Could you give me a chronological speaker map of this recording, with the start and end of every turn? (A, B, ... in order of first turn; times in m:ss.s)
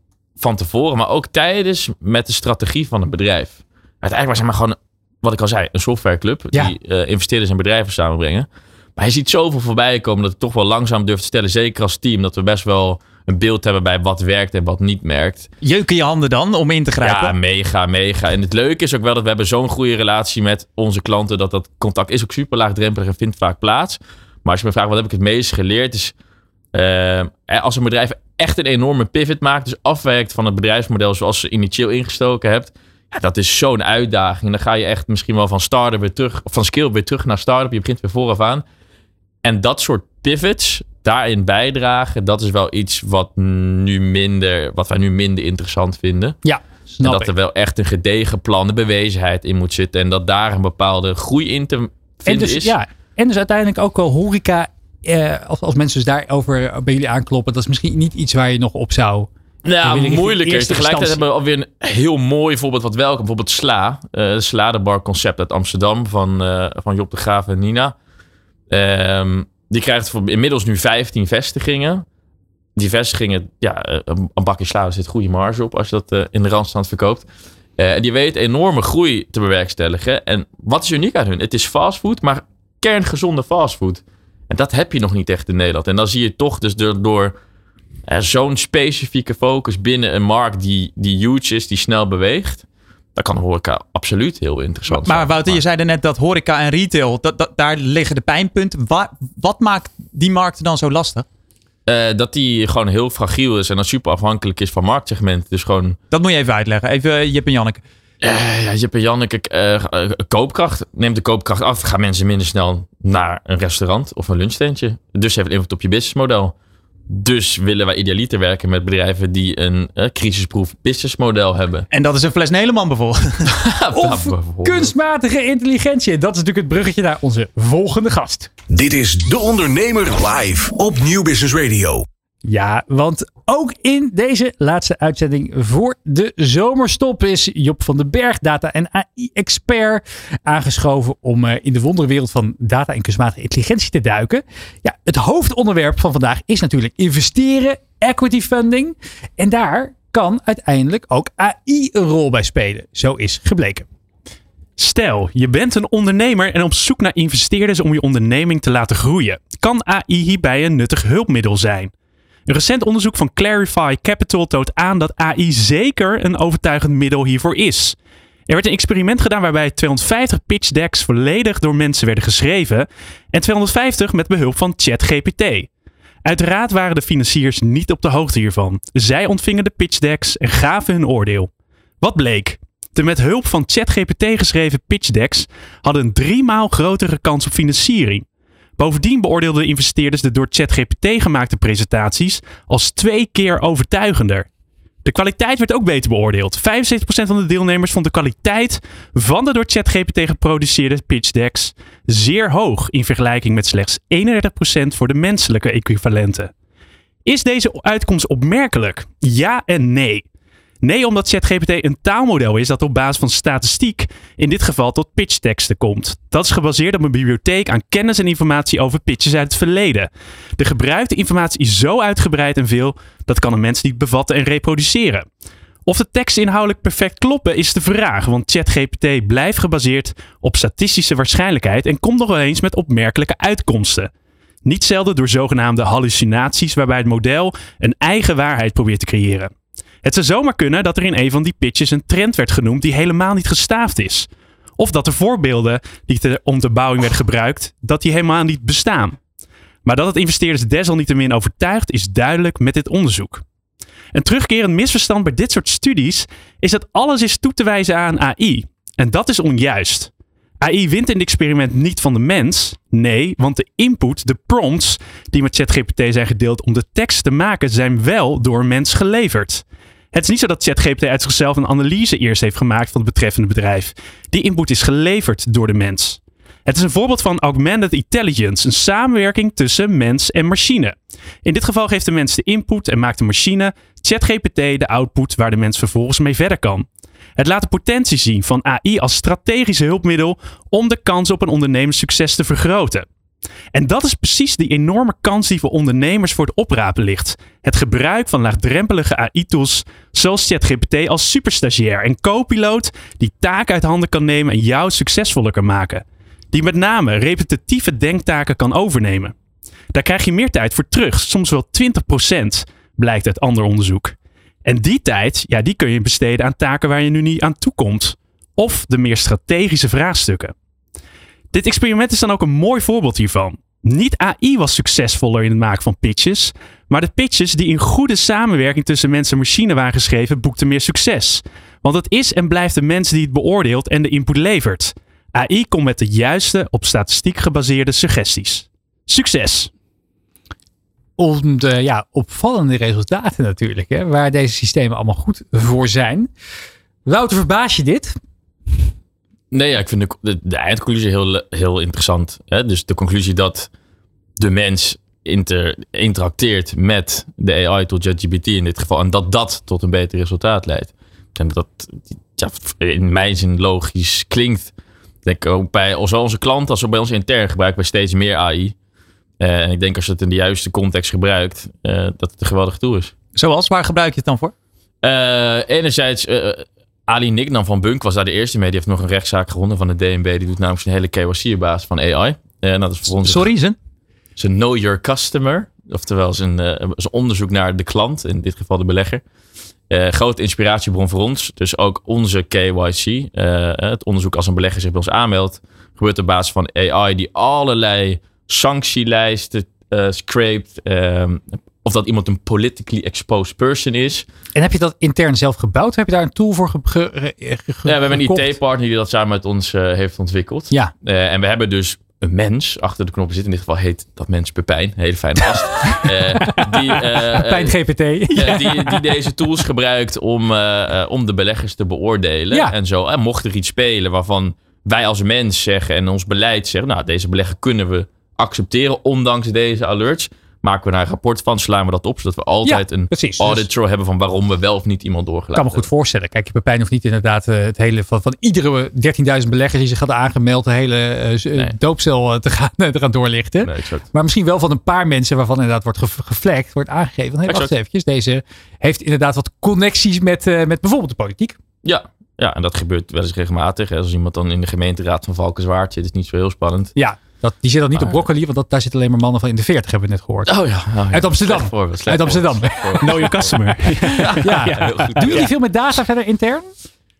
0:00.4-0:15.5 A
0:15.6-0:17.3 B
0:17.0-0:26.1 A
0:26.7-0:38.6 A
0:39.4-0:46.4 A
0:46.4-0:47.3 C
0:47.0-0:52.7 A
0:52.3-0:59.3 C
0:59.6-1:07.9 A
0:59.8-1:01.2 C
1:08.7-1:12.0 A
1:12.8-1:17.2 A
1:17.8-1:27.3 A
1:28.1-1:32.6 A
1:33.2-1:35.6 A
1:34.9-1:41.2 B
1:41.9-1:46.0 A
1:46.1-1:47.8 B
1:48.2-1:56.5 A
1:57.1-2:01.8 A
2:01.9-2:03.4 B
2:03.5-2:04.9 A
2:03.9-2:08.5 C
2:08.7-2:12.0 D
2:12.4-2:33.9 C
2:34.8-2:41.9 E
2:42.4-2:48.0 E
2:48.5-2:55.7 E
2:56.2-3:01.5 E
3:02.0-3:08.2 E
3:08.8-3:14.5 E
3:15.0-3:26.5 E
3:27.2-3:30.2 E
3:30.8-3:45.3 E
3:45.8-3:54.1 E
3:54.6-3:59.5 E
4:00.0-4:09.2 E
4:09.8-4:13.4 E
4:14.1-4:20.1 E
4:20.6-4:53.0 E
4:53.7-5:09.3 E
5:09.9-5:20.5 E
5:21.5-5:39.7 E
5:41.2-5:46.3 C
5:47.0-5:48.1 C
5:49.5-5:53.7 A
5:54.4-6:04.7 A
6:05.2-6:08.7 A
6:09.4-6:13.1 A
6:13.3-6:14.5 B
6:15.0-6:23.5 A
6:23.1-6:23.8 B
6:24.4-6:29.2 A
6:29.9-6:44.2 A
6:44.6-6:48.4 C
6:47.8-6:57.8 A
6:56.0-6:59.0 C
6:58.3-7:15.8 A
7:12.6-7:13.6 C
7:15.5-7:31.6 C
7:23.6-7:24.0 A
7:31.8-7:36.9 A
7:37.0-7:40.5 C
7:37.9-7:38.2 A
7:40.5-7:45.5 A
7:41.1-7:43.4 C
7:43.0-7:45.3 E
7:44.3-7:46.7 C